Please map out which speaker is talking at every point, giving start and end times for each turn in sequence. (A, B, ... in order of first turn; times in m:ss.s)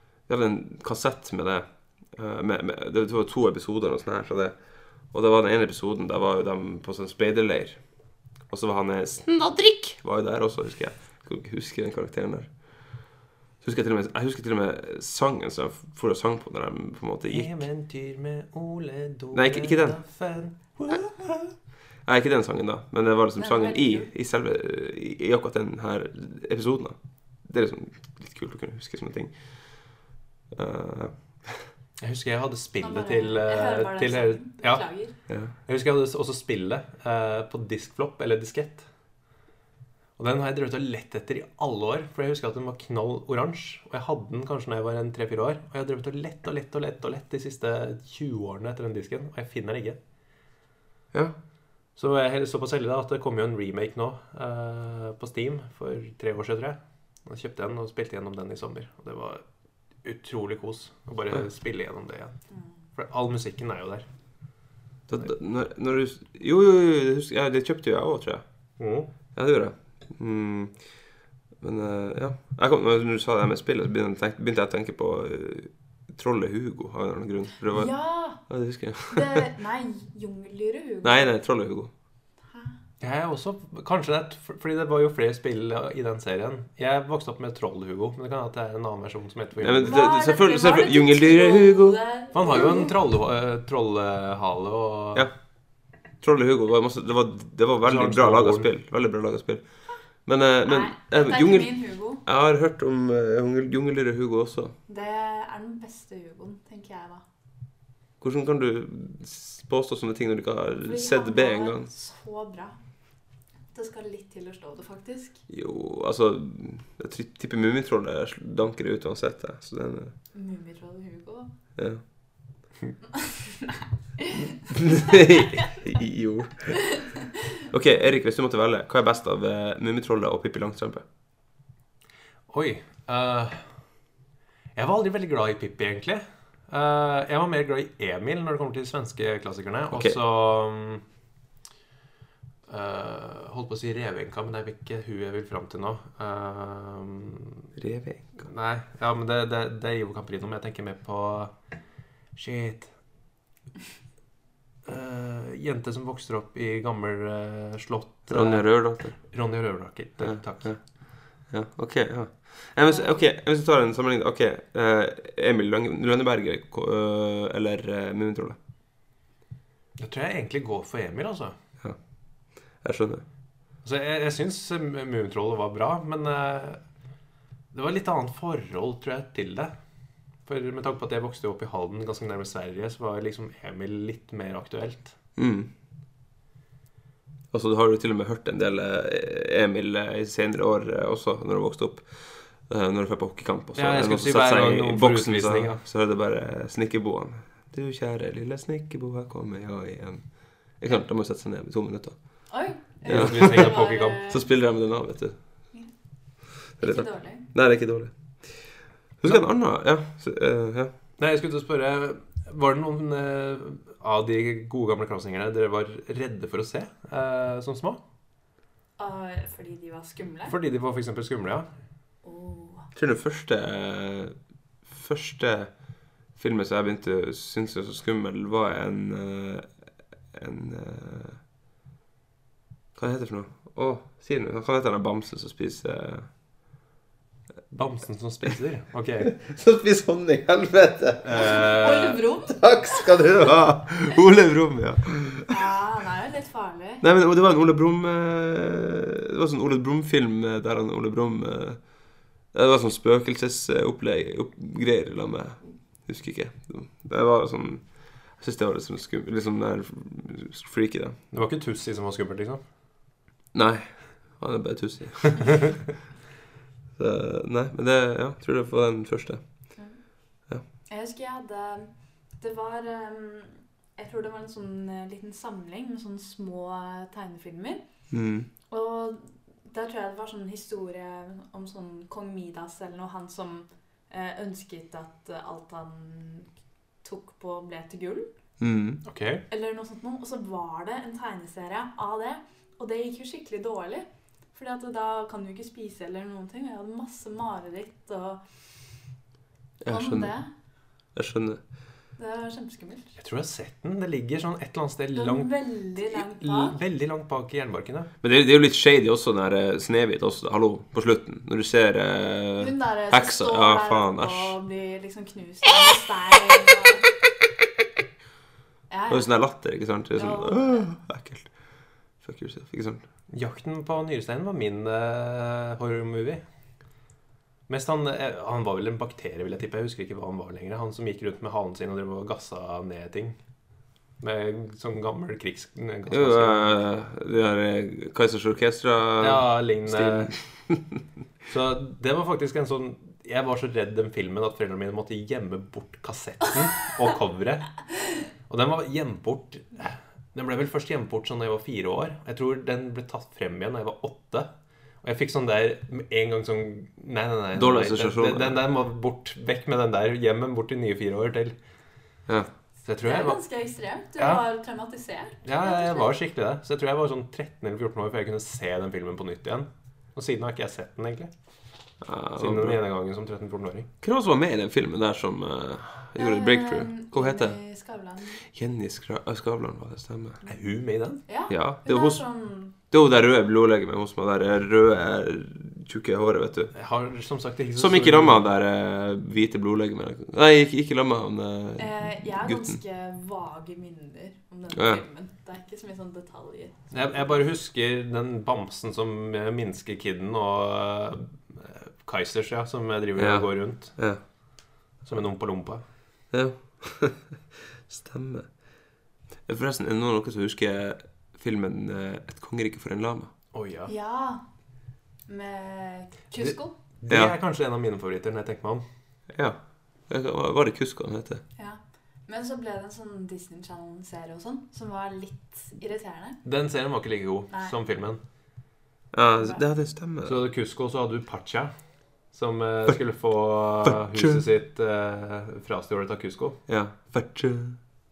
0:00.3-0:04.5 A
0:05.1-0:07.8 A
0:08.5-0:12.5 A
0:13.6-0:17.6 A
0:17.3-0:21.5 B
0:19.3-0:20.0 A
0:22.0-0:30.0 A
0:23.4-0:24.1 C
0:30.5-0:31.7 A
0:32.0-0:34.8 B
0:32.8-0:35.1 C
0:35.6-0:38.8 B
0:40.2-0:50.0 B
0:52.0-0:59.4 B
1:00.0-1:02.3 B
1:03.0-1:04.0 B
1:05.1-1:08.4 A
1:08.8-1:09.1 B
1:09.3-1:10.7 A
1:11.6-1:19.4 A
1:17.7-1:18.4 C
1:19.1-1:21.3 C
1:21.0-1:21.9 A
1:22.5-1:22.8 C
1:23.0-1:30.0 B
1:29.6-1:32.0 A
1:29.8-1:32.9 C
1:32.3-1:35.3 B
1:36.2-1:39.6 A
1:37.8-1:38.7 B
1:40.2-1:44.7 A
1:40.6-1:42.2 C
1:44.9-1:47.2 C
1:48.2-1:51.9 A
1:50.8-1:52.8 C
1:53.7-1:55.4 C
1:55.5-2:00.1 A
2:00.3-2:01.5 C
2:01.8-2:02.0 A
2:03.2-2:05.6 C
2:04.7-2:06.8 A
2:07.7-2:11.0 A
2:12.5-2:13.7 B
2:14.7-2:21.0 B
2:19.9-2:20.2 A
2:22.7-2:27.7 B
2:27.8-2:28.4 A
2:28.4-2:31.5 B
2:32.3-2:32.9 B
2:34.8-2:40.8 B
2:38.3-2:39.2 A
2:40.2-2:48.6 A
2:50.0-2:51.5 B
2:52.8-2:53.2 A
2:53.8-2:56.8 B
2:57.7-2:59.7 B
3:00.4-3:05.2 B
3:05.4-3:05.7 A
3:07.5-3:22.2 A
3:13.7-3:15.8 B
3:22.5-3:24.4 C
3:23.0-3:24.2 B
3:23.1-3:23.8 A
3:24.3-3:25.3 A
3:26.8-3:27.4 C
3:26.8-3:28.7 A
3:29.2-3:30.9 A
3:31.2-3:38.0 B
3:39.0-3:40.6 C
3:40.5-3:41.7 B
3:42.2-3:42.9 C
3:42.9-3:45.7 A
3:46.4-3:49.7 A
3:50.3-3:51.4 A
3:52.9-3:56.3 A
3:57.7-3:59.4 B
3:59.3-4:01.6 A
4:01.2-4:02.2 B
4:01.4-4:03.1 C
4:02.5-4:05.5 A
4:05.5-4:07.0 C
4:07.0-4:11.8 A
4:12.5-4:21.2 A
4:21.3-4:22.6 B
4:23.5-4:25.8 A
4:27.0-4:29.4 A
4:30.9-4:37.8 C
4:38.1-4:38.5 A
4:38.7-4:46.5 C
4:47.0-4:48.3 C
4:48.6-4:49.0 A
4:49.0-4:49.4 B
4:49.5-4:58.4 C
4:59.8-5:00.3 A
4:59.8-5:00.5 C
5:01.1-5:01.6 A
5:02.2-5:03.2 C
5:03.2-5:08.1 B
5:05.1-5:06.8 C
5:08.2-5:14.5 A
5:12.6-5:17.1 C
5:18.9-5:19.3 C
5:19.1-5:21.5 A
5:20.1-5:20.9 C
5:22.2-5:23.0 A
5:23.3-5:26.4 B
5:27.7-5:33.4 B
5:34.2-5:36.9 B
5:36.1-5:41.0 A
5:39.2-5:40.3 B
5:41.5-5:47.8 B
5:48.5-5:54.5 B
5:55.0-6:01.5 B
5:57.5-5:58.6 A
6:02.8-6:03.4 B
6:03.0-6:06.2 C
6:04.2-6:04.4 B
6:05.4-6:11.3 B
6:12.0-6:12.8 A
6:12.4-6:13.9 B
6:14.0-6:17.6 A
6:16.2-6:18.4 C
6:18.4-6:20.4 A
6:20.4-6:21.2 B
6:21.3-6:22.8 C
6:21.5-6:22.2 A
6:22.8-6:26.7 A
6:26.7-6:28.4 B
6:27.8-6:32.8 A
6:31.8-6:37.4 C
6:34.7-6:35.0 A
6:36.9-6:44.0 B
6:43.2-6:44.2 A
6:45.0-6:45.8 B
6:46.3-6:48.5 A
6:49.5-6:53.3 A
6:53.5-6:53.9 B
6:53.9-6:54.4 C
6:55.3-6:56.7 C
6:56.4-6:58.8 B
6:57.1-6:57.3 A
6:59.3-7:01.4 A
7:01.6-7:06.4 C
7:06.4-7:08.2 B
7:07.5-7:07.8 C
7:09.1-7:10.4 A
7:10.2-7:11.7 B
7:12.3-7:16.6 B
7:13.9-7:14.4 A
7:16.7-7:17.8 A